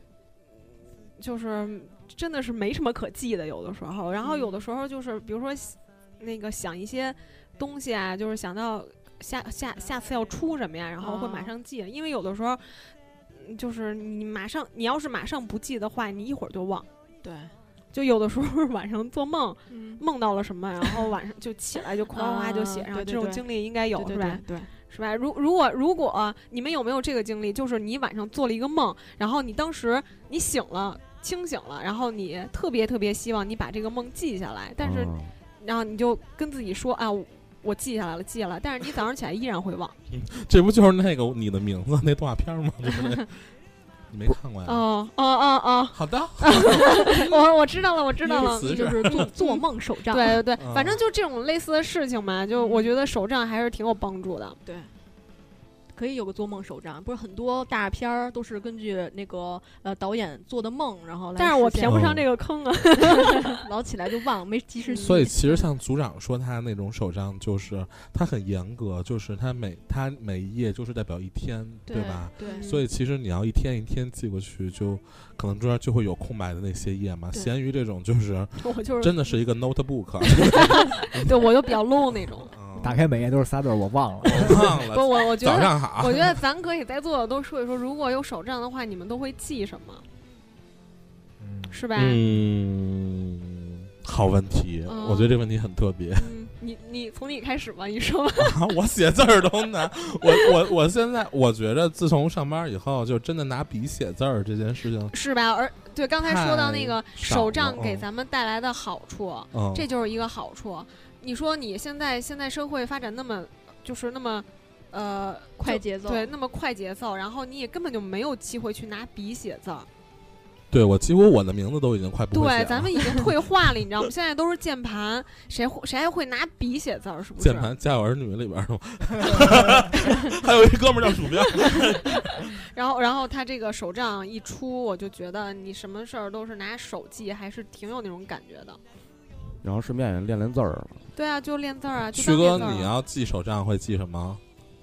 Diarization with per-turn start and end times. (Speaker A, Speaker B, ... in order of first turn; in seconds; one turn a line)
Speaker A: 1.2-16.9
Speaker B: 4.2-4.6
Speaker B: 11.0-11.5
Speaker B: 17.2-17.5
Speaker A: 17.9-40.0
Speaker B: 19.7-20.0
Speaker B: 22.1-24.7
Speaker C: 34.8-35.3
Speaker D: 40.1-43.3
Speaker D: 44.1-44.8
Speaker A: 44.6-54.6
Speaker D: 45.9-47.2
Speaker B: 46.8-47.3
Speaker B: 48.2-50.4
Speaker D: 48.3-49.3
Speaker D: 50.6-51.0
Speaker B: 52.6-52.9
Speaker B: 54.6-54.9
Speaker B: 55.9-62.0
Speaker A: 61.4-63.6
Speaker D: 61.9-62.2
Speaker B: 63.0-65.6
Speaker A: 64.8-65.3
Speaker D: 65.0-81.2
Speaker B: 71.9-72.7
Speaker A: 72.4-72.8
Speaker A: 78.7-79.1
Speaker A: 80.3-82.5
Speaker D: 82.5-83.0
Speaker E: 82.8-84.7
Speaker D: 84.3-86.4
Speaker A: 84.9-90.0
Speaker E: 91.4-91.7
Speaker A: 91.7-92.2
Speaker D: 91.9-96.3
Speaker A: 94.8-95.4
Speaker A: 96.2-98.6
Speaker D: 98.4-105.1
Speaker A: 105.1-119.9
Speaker D: 106.2-108.0
Speaker D: 109.5-109.9
Speaker B: 115.6-116.3
Speaker D: 120.7-123.3
Speaker A: 122.3-127.7
Speaker D: 127.4-132.5
Speaker A: 131.6-138.8
Speaker C: 139.6-141.0
Speaker A: 141.1-142.9
Speaker D: 142.1-144.4